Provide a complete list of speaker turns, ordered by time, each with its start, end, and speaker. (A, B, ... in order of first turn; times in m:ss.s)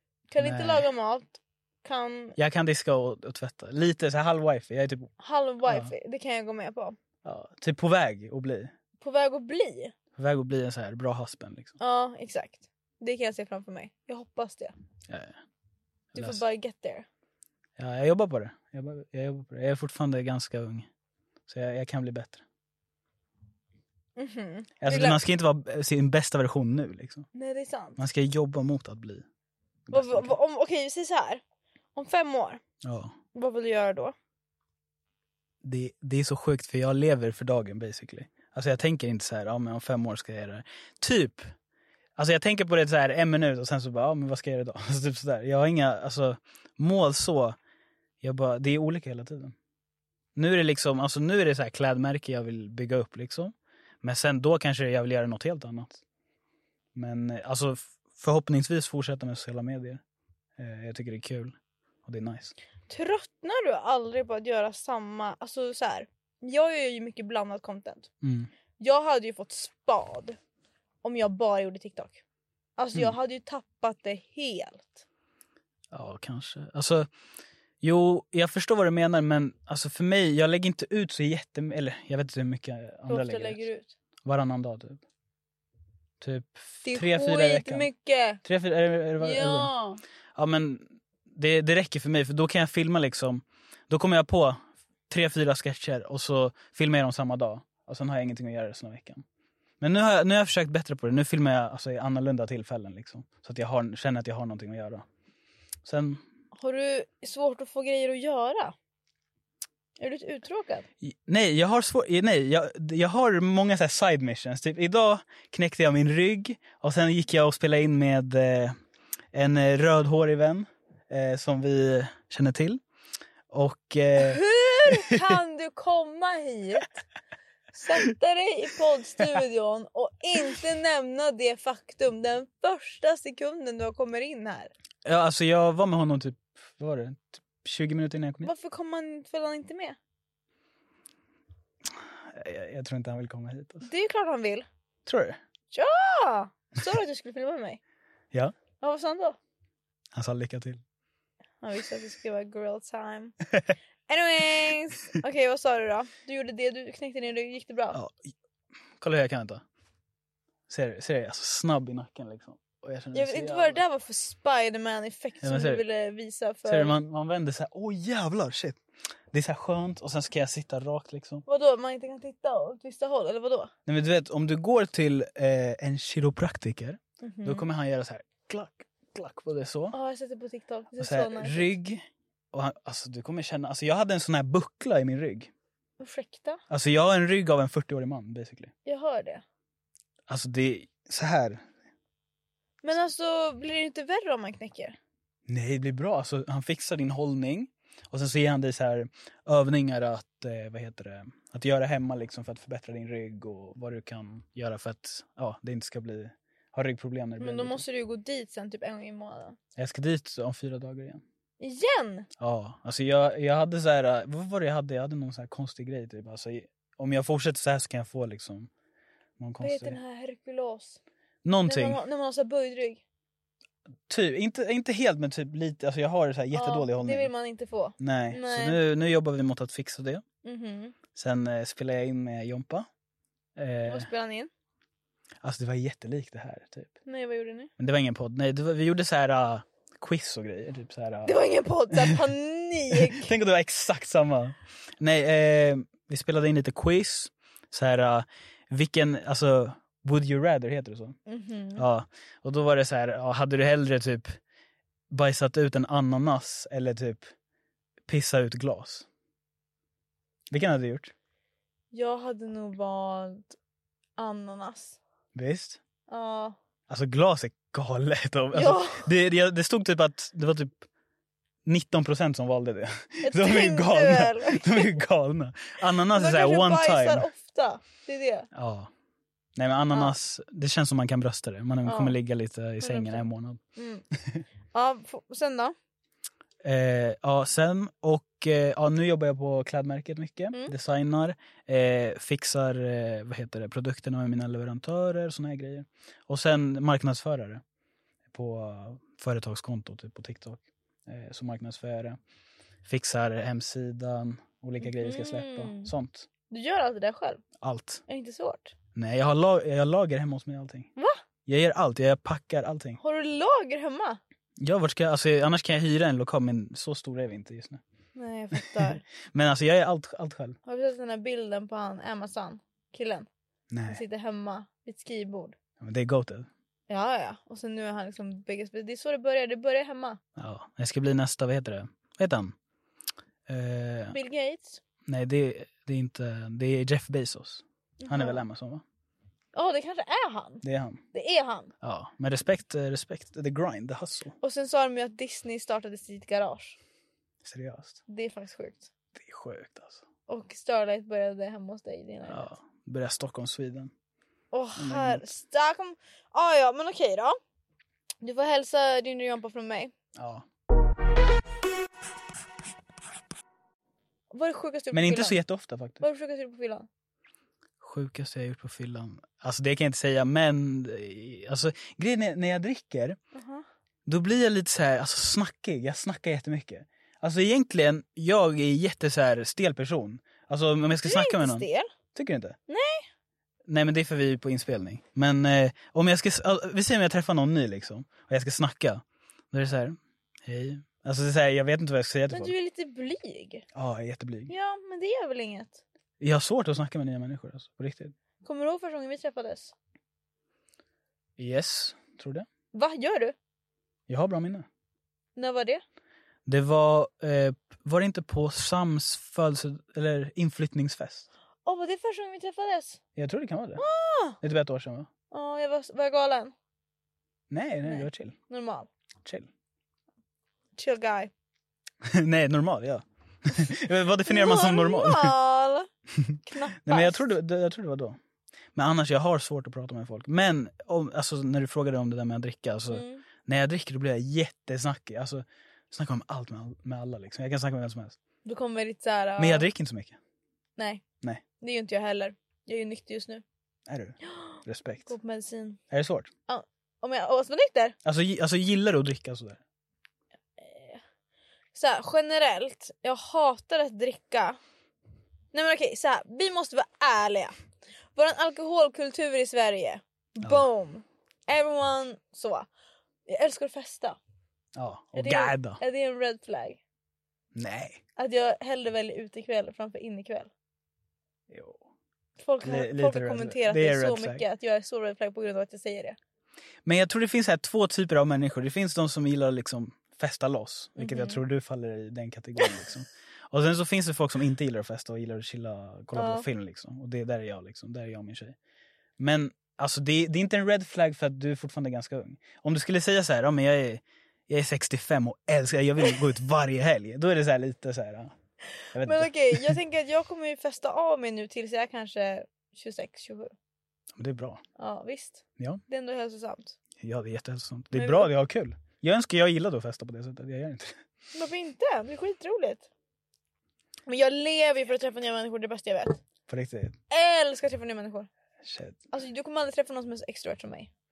0:00.3-0:02.4 A
0:00.4-0:00.9 B
0:02.4-0:05.1 B
0:05.2-0:07.0 A
0:05.6-0:05.9 B
0:07.2-0:08.7 B
0:09.0-0:09.9 A
0:10.2-0:11.7 B
0:11.8-0:14.7 A
0:15.1-0:15.4 B
0:16.1-0:16.4 B
0:16.1-0:17.1 A
0:17.8-0:20.9 B
0:21.5-0:22.4 B
0:24.2-0:25.2 A
0:24.8-0:27.3 B
0:27.3-0:28.0 A
0:28.0-0:29.2 B
0:29.9-0:30.4 B
0:29.9-0:31.4 A
0:32.0-0:32.6 A
0:32.8-0:33.2 B
0:33.4-0:34.1 A
0:35.6-0:41.5 B
0:42.2-0:47.6 B
0:48.2-0:49.6 B
0:50.4-0:56.0 B
0:57.0-1:00.0 B
1:00.6-1:02.5 B
1:02.9-1:08.1 A
1:08.2-1:08.5 B
1:08.8-1:10.4 A
1:11.0-1:12.2 A
1:12.8-1:15.0 A
1:15.9-1:17.1 B
1:17.8-1:23.6 B
1:23.1-1:24.0 A
1:24.2-1:25.0 B
1:26.2-1:27.9 B
1:26.8-1:28.4 A
1:28.4-1:29.7 B
1:29.2-1:30.0 A
1:30.4-1:39.2 B
1:39.8-1:45.1 B
1:45.8-1:46.2 B
1:46.6-1:48.8 A
1:50.0-1:50.9 A
1:51.0-1:58.8 B
1:59.3-2:02.8 B
2:03.5-2:05.4 B
2:04.2-2:07.0 A
2:07.7-2:14.7 A
2:15.0-2:18.5 B
2:18.4-2:20.0 A
2:22.3-2:23.9 B
2:23.8-2:24.7 A
2:25.1-2:25.4 B
2:25.7-2:27.8 A
2:28.8-2:29.4 A
2:30.1-2:30.8 B
2:31.6-2:33.4 A
2:34.1-2:38.0 A
2:37.9-2:38.3 B
2:39.0-2:39.6 B
2:40.7-2:43.8 B
2:43.1-2:47.0 A
2:45.4-2:45.8 B
2:46.6-2:48.8 B
2:49.3-2:51.4 B
2:51.5-2:53.7 A
2:53.9-3:00.0 B
2:57.2-2:57.7 A
2:59.9-3:01.7 A
3:01.0-3:05.5 B
3:06.0-3:06.6 A
3:06.7-3:08.7 B
3:08.9-3:09.4 A
3:10.3-3:11.6 B
3:12.8-3:15.0 A
3:15.5-3:27.8 B
3:27.4-3:29.6 A
3:29.8-3:31.2 B
3:31.6-3:32.3 A
3:32.4-3:38.7 B
3:39.4-3:40.0 B
3:39.6-3:41.0 A
3:41.4-3:42.0 B
3:41.6-3:43.0 A
3:44.1-3:47.3 B
3:46.5-3:48.8 A
3:48.0-3:50.2 B
3:50.4-3:51.0 A
3:51.2-3:52.9 B
3:53.6-3:54.1 B
3:53.9-3:54.5 A
3:55.4-3:57.0 B
3:57.1-3:57.7 A
3:57.8-4:01.4 B
4:01.2-4:03.3 A
4:01.9-4:02.2 B
4:02.9-4:11.2 B
4:11.3-4:11.9 A
4:11.8-4:14.4 B
4:15.1-4:17.3 B
4:18.1-4:19.1 B
4:20.5-4:21.1 B
4:21.9-4:23.6 A
4:24.2-4:25.0 A
4:25.4-4:25.8 B
4:26.1-4:26.6 A
4:26.9-4:30.8 B
4:28.5-4:29.1 A
4:31.6-4:37.3 B
4:33.2-4:35.0 A
4:36.1-4:38.5 A
4:38.5-4:38.9 B
4:39.6-4:43.6 B
4:41.8-4:42.2 A
4:42.8-4:44.0 A
4:44.7-4:45.7 A
4:46.6-4:57.6 B
4:58.3-5:02.2 B
5:02.8-5:06.3 B
5:04.8-5:05.9 A
5:06.5-5:07.4 A
5:07.6-5:08.0 B
5:08.1-5:08.8 A
5:09.0-5:10.9 B
5:11.5-5:13.0 B
5:13.0-5:14.2 A
5:14.6-5:17.8 B
5:18.2-5:19.0 A
5:18.6-5:20.6 B
5:20.7-5:23.3 A
5:23.7-5:24.0 B
5:23.9-5:25.6 A
5:25.8-5:26.5 B
5:26.9-5:30.2 A
5:30.4-5:32.6 B
5:33.5-5:34.2 B
5:34.1-5:34.8 A
5:35.1-5:38.8 B
5:38.0-5:38.4 A
5:39.5-5:40.6 A
5:40.6-5:41.0 B
5:41.1-5:41.7 A
5:41.8-5:44.4 B
5:44.4-5:46.8 A
5:47.4-5:48.0 B
5:48.1-5:48.9 A
5:49.2-5:50.0 B
5:50.3-5:52.5 A
5:52.3-5:53.9 B
5:54.5-5:57.4 A
5:54.8-5:55.2 B
5:58.2-5:59.9 A
6:00.2-6:00.4 B
6:04.3-6:05.4 A
6:04.9-6:06.1 B
6:06.0-6:06.9 A
6:07.8-6:13.2 B
6:13.3-6:13.7 A
6:14.1-6:22.6 B
6:21.0-6:21.9 A
6:22.7-6:23.1 A
6:23.7-6:32.5 B
6:32.3-6:33.6 A
6:33.8-6:34.5 B
6:34.5-6:35.8 A
6:36.2-6:38.2 B
6:38.4-6:39.7 A
6:41.4-6:42.5 B
6:42.7-6:43.3 A
6:44.1-6:44.7 B
6:45.4-6:45.8 A
6:46.5-6:51.3 B
6:51.6-6:53.0 A
6:53.2-6:53.8 B
6:53.8-6:54.4 A
6:54.4-6:55.1 B
6:55.3-6:56.5 A
6:57.5-6:58.4 B
6:57.8-6:58.9 A
7:00.8-7:01.3 A
7:02.0-7:05.3 B
7:04.2-7:05.9 A
7:06.2-7:08.2 B
7:06.5-7:07.3 A
7:08.8-7:18.2 B
7:12.9-7:13.2 A
7:18.4-7:19.7 A
7:19.4-7:20.2 B
7:20.8-7:21.0 A
7:21.6-7:23.4 A
7:23.9-7:25.1 B
7:24.3-7:25.8 A
7:25.9-7:26.3 B
7:26.5-7:28.0 A
7:28.0-7:29.6 B
7:30.6-7:31.0 A
7:31.8-7:34.6 A
7:35.5-7:37.6 A
7:38.2-7:42.7 A
7:40.4-7:40.7 B
7:43.3-7:44.2 A
7:44.8-7:45.8 B
7:45.1-7:46.8 A
7:47.6-7:48.0 B
7:48.2-7:50.5 A
7:51.5-7:51.8 B
7:52.4-7:56.2 A
7:52.6-7:54.4 B
7:56.8-8:08.6 B
8:01.0-8:01.4 A
8:06.1-8:06.5 A
8:09.2-8:18.4 B
8:18.9-8:19.8 B
8:19.0-8:23.5 A
8:24.2-8:24.6 B
8:24.8-8:26.8 A
8:27.0-8:31.0 B
8:27.9-8:28.3 A
8:31.3-8:32.9 A
8:34.1-8:36.2 A
8:36.5-8:37.0 B
8:37.1-8:38.3 A
8:38.6-8:39.0 B
8:39.1-8:40.9 A